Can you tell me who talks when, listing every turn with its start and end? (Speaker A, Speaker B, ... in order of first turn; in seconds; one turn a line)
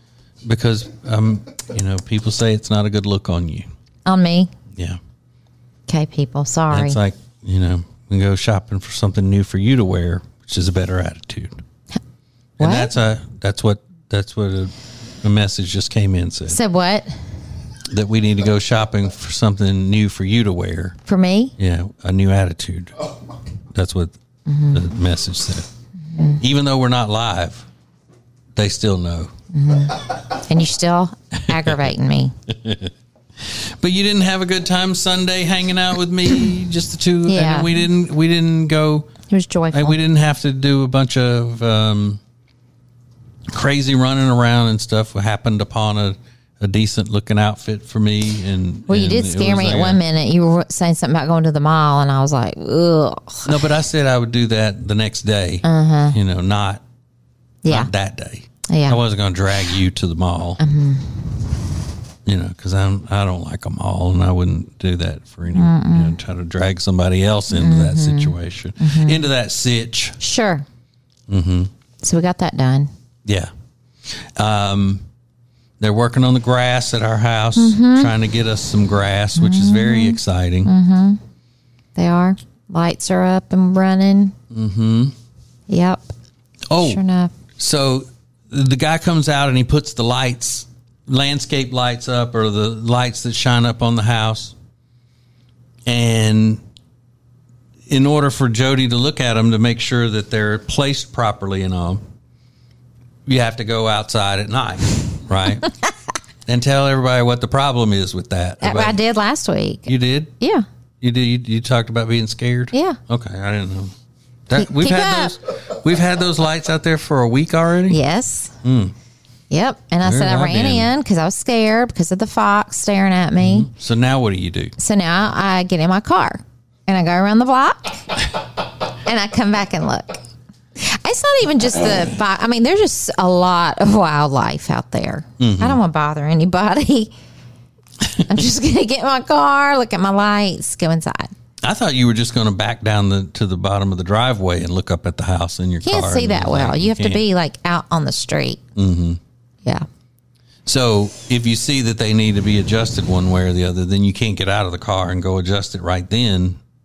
Speaker A: 0.4-3.7
Speaker B: 4.1-4.5
Speaker B: 5.9-7.0
Speaker A: 6.7-11.6
Speaker A: 12.6-16.6
Speaker B: 12.6-12.9
Speaker B: 16.5-17.1
Speaker A: 17.9-21.0
Speaker B: 21.1-21.5
Speaker A: 21.6-23.0
Speaker A: 23.7-24.1
Speaker B: 24.5-24.9
Speaker A: 24.7-25.7
Speaker B: 26.1-26.4
Speaker A: 26.4-27.7
Speaker A: 28.6-29.3
Speaker B: 29.5-32.3
Speaker A: 31.5-31.8
Speaker A: 32.5-39.1
Speaker B: 37.3-37.7
Speaker B: 39.3-40.0
Speaker A: 39.7-42.2
Speaker A: 43.5-50.0
Speaker B: 48.9-53.6
Speaker A: 53.5-56.8
Speaker B: 55.6-56.2
Speaker B: 57.6-57.9
Speaker A: 57.7-60.6
Speaker B: 58.7-59.0
Speaker B: 60.6-61.4
Speaker A: 62.2-70.2
Speaker B: 65.5-66.2
Speaker B: 67.5-69.3
Speaker B: 70.2-70.7
Speaker A: 71.3-71.7
Speaker B: 72.0-72.9
Speaker A: 73.2-73.5
Speaker A: 74.0-75.0
Speaker A: 75.8-80.7
Speaker B: 77.6-78.1
Speaker B: 79.4-81.2
Speaker B: 82.0-84.3
Speaker A: 84.5-85.2
Speaker B: 85.7-86.1
Speaker A: 86.7-87.0
Speaker B: 86.8-87.3
Speaker A: 87.6-94.5
Speaker A: 95.9-96.6
Speaker A: 97.9-102.0
Speaker A: 103.3-105.7
Speaker A: 106.5-109.0
Speaker B: 108.6-110.7
Speaker A: 109.9-110.3
Speaker A: 111.0-113.9
Speaker B: 112.7-113.0
Speaker A: 114.5-118.0
Speaker B: 114.6-115.3
Speaker B: 117.9-118.6
Speaker A: 118.6-119.0
Speaker B: 119.5-123.7
Speaker A: 120.0-120.9
Speaker A: 123.4-124.8
Speaker B: 124.8-128.1
Speaker B: 129.0-130.2
Speaker B: 130.8-137.1
Speaker A: 135.4-135.8
Speaker B: 138.2-141.3
Speaker A: 141.6-147.2
Speaker B: 145.8-148.6
Speaker A: 148.8-149.2
Speaker A: 150.7-156.6